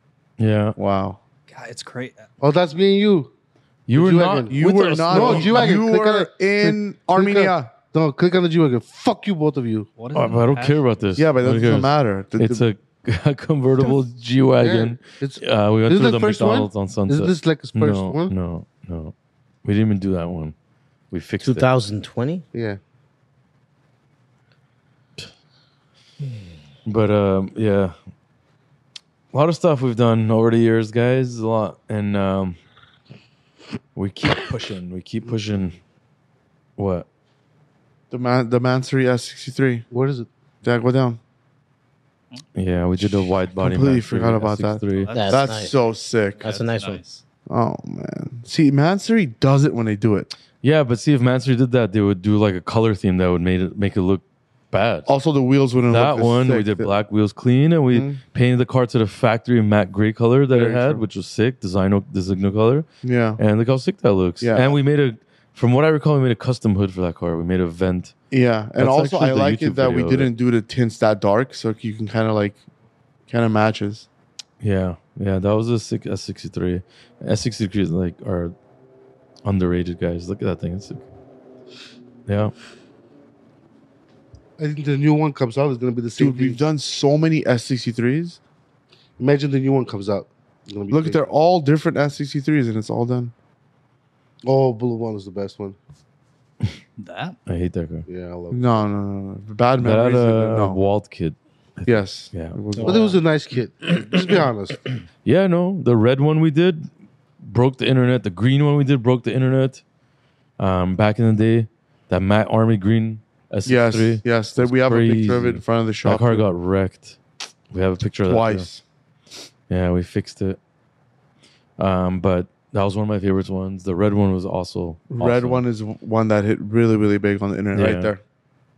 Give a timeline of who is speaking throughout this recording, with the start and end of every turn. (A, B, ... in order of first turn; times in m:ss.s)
0:00.4-0:00.8 A
0:00.8-0:01.2 B
0:01.5-0:02.3 C
0:02.4-0:03.3 D
0:03.9-0:05.7 A
0:03.9-0:09.9 D
0:04.5-0:07.7 B
0:10.0-0:10.8 C
0:10.1-0:19.1 A
0:11.2-0:12.6 B
0:14.6-0:18.3 D
0:19.6-0:20.5 A
0:21.1-0:21.7 A
0:21.4-0:22.4 E
0:22.5-0:22.8 D
0:26.8-0:27.9 A
0:29.3-0:32.6 A
0:33.9-0:35.8 A
0:36.8-0:37.0 A
0:38.1-0:39.8 B
0:39.9-0:40.3 D
0:40.6-0:41.2 B
0:42.5-0:45.1 A
0:43.6-0:46.5 B
0:44.9-0:45.7 C
0:45.1-0:45.8 E
0:46.4-0:47.0 E
0:46.4-0:47.2 C
0:47.5-0:50.3 B
0:50.6-0:55.1 A
0:55.0-0:56.9 B
0:55.8-1:02.8 A
0:57.9-0:58.2 B
1:00.5-1:01.0 B
1:03.0-1:03.4 B
1:03.4-1:08.1 A
1:04.4-1:04.8 B
1:08.3-1:12.6 B
1:08.8-1:10.3 A
1:13.3-1:14.1 B
1:14.6-1:18.5 A
1:19.4-1:21.0 A
1:22.2-1:22.5 A
1:24.6-1:26.6 D
1:26.2-1:28.4 B
1:29.2-1:31.2 D
1:30.9-1:33.3 B
1:34.4-1:35.8 D
1:37.0-1:37.4 C
1:37.5-1:38.0 A
1:38.1-1:38.8 D
1:38.5-1:40.8 B
1:39.8-1:42.6 A
1:41.8-1:43.1 B
1:42.8-1:43.0 E
1:42.8-1:44.9 D
1:45.2-1:46.9 A
1:47.4-1:49.8 A
1:50.6-1:57.2 A
1:53.6-1:56.4 B
1:57.7-1:58.6 A
1:58.2-1:58.8 B
1:59.7-2:00.6 A
2:01.8-2:05.6 A
2:05.1-2:08.2 B
2:07.7-2:08.1 A